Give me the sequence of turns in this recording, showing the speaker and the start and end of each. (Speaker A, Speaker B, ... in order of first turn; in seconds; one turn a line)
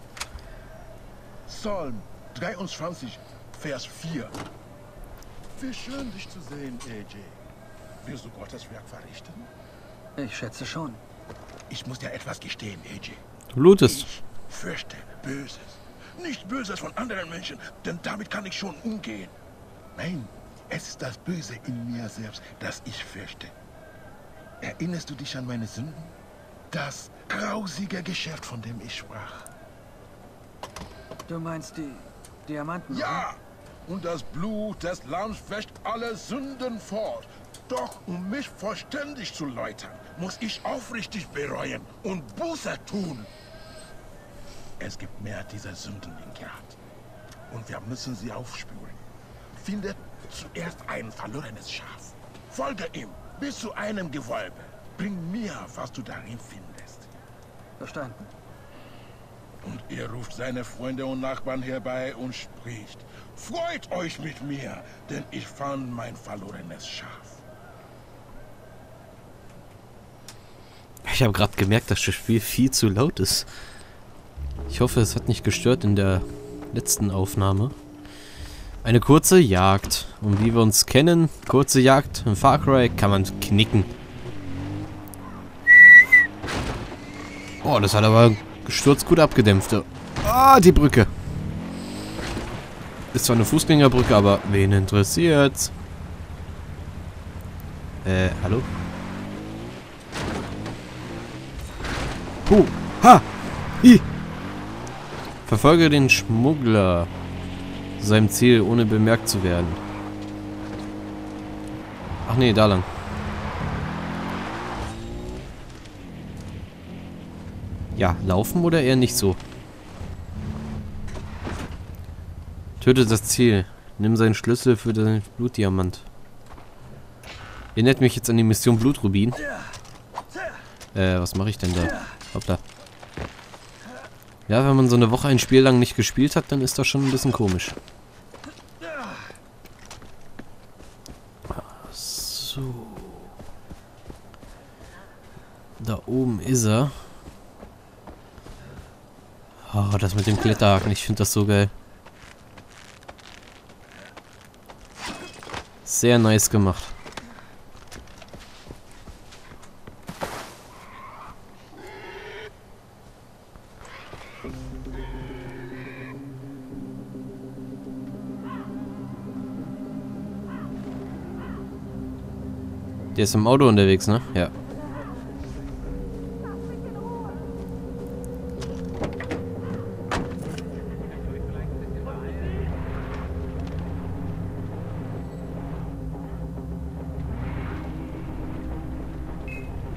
Speaker A: 1.5-4.4
Speaker A: 5.5-7.4
Speaker A: 8.0-9.5
Speaker B: 10.2-11.0
Speaker A: 11.7-13.2
Speaker C: 13.5-14.1
Speaker A: 13.8-19.3
Speaker A: 20.0-23.5
Speaker A: 24.6-26.1
Speaker A: 26.7-29.5
Speaker B: 31.3-33.1
Speaker A: 32.9-43.3
Speaker A: 44.8-46.8
Speaker A: 47.5-49.0
Speaker A: 49.6-57.1
Speaker B: 57.8-58.2
Speaker A: 59.6-67.4
Speaker C: 71.0-73.5
Speaker C: 74.7-77.7
Speaker C: 78.8-83.9
Speaker C: 87.6-91.1
Speaker C: 93.1-95.7
Speaker C: 98.0-98.7
Speaker C: 102.5-103.3
Speaker C: 105.5-107.1
Speaker C: 108.0-109.8
Speaker C: 112.3-112.9
Speaker C: 118.0-119.4
Speaker C: 122.8-126.1
Speaker C: 127.8-129.4
Speaker C: 130.9-132.6
Speaker C: 134.5-137.8
Speaker C: 141.6-143.3
Speaker C: 145.8-146.9
Speaker C: 149.7-151.7
Speaker C: 155.8-156.9
Speaker C: 173.2-174.5